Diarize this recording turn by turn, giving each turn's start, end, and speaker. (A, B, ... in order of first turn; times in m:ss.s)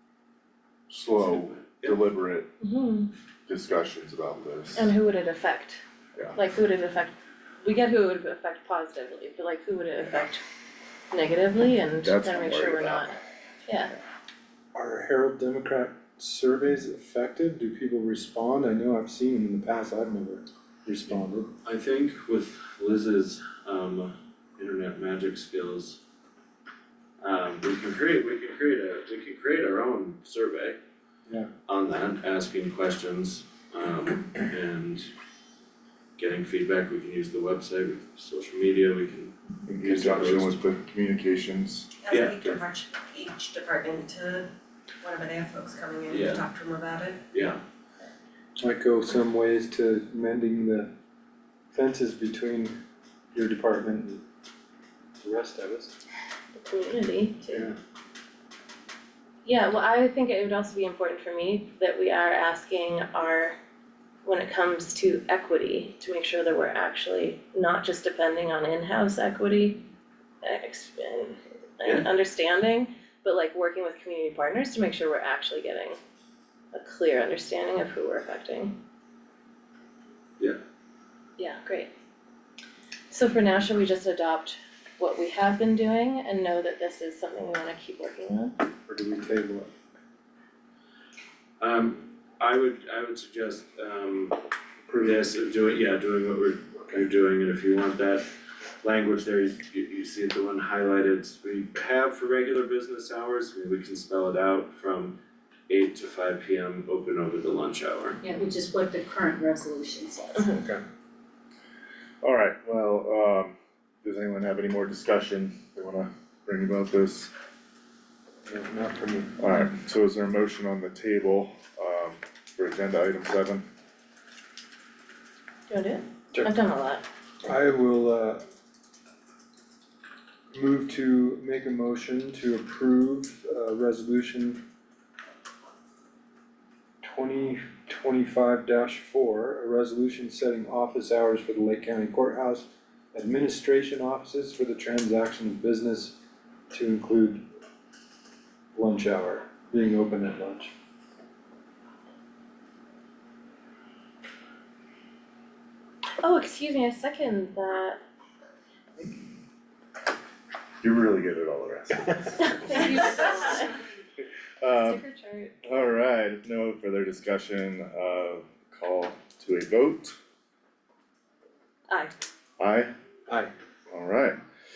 0:00.9-0:02.5 A
0:01.2-0:02.1 B
0:02.6-0:03.1 C
0:03.5-0:04.9 A
0:04.7-0:05.8 C
0:06.4-0:10.4 C
0:11.1-0:13.1 C
0:12.0-0:13.2 A
0:13.6-0:13.9 C
0:14.7-0:21.5 D
0:21.6-0:26.0 B
0:27.2-0:30.8 B
0:31.7-0:35.1 B
0:36.2-0:40.6 B
0:39.7-0:41.9 A
0:42.0-0:44.5 E
0:42.1-0:42.6 B
0:45.0-0:47.2 E
0:46.1-0:46.5 B
0:47.3-0:47.6 B
0:48.6-0:50.9 D
0:51.7-0:52.8 D
0:53.3-0:54.2 D
0:55.2-0:55.9 D
0:56.5-0:57.7 C
0:59.4-1:03.6 C
1:04.2-1:09.9 C
1:10.4-1:16.0 C
1:16.7-1:18.8 C
1:21.4-1:21.9 C
1:23.1-1:28.6 C
1:28.9-1:29.7 D
1:31.6-1:34.4 B
1:34.9-1:35.2 D
1:35.0-1:38.3 B
1:38.8-1:45.2 B
1:45.7-1:48.2 B
1:48.2-1:50.6 F
1:52.2-1:57.3 A
1:58.4-1:59.4 D
1:59.4-2:03.6 A
2:05.7-2:07.0 C
2:07.4-2:08.4 D
2:10.5-2:14.6 D
2:17.0-2:26.2 D
2:26.7-2:27.4 D
2:28.7-2:30.7 D
2:36.2-2:38.0 C
2:40.8-2:42.5 A
2:42.4-2:43.7 C
2:44.6-2:45.0 A
2:44.7-2:45.5 C
2:45.6-2:50.2 A
2:51.9-2:52.1 C
2:52.6-2:52.9 A
2:53.3-2:53.5 D
2:53.9-2:54.4 A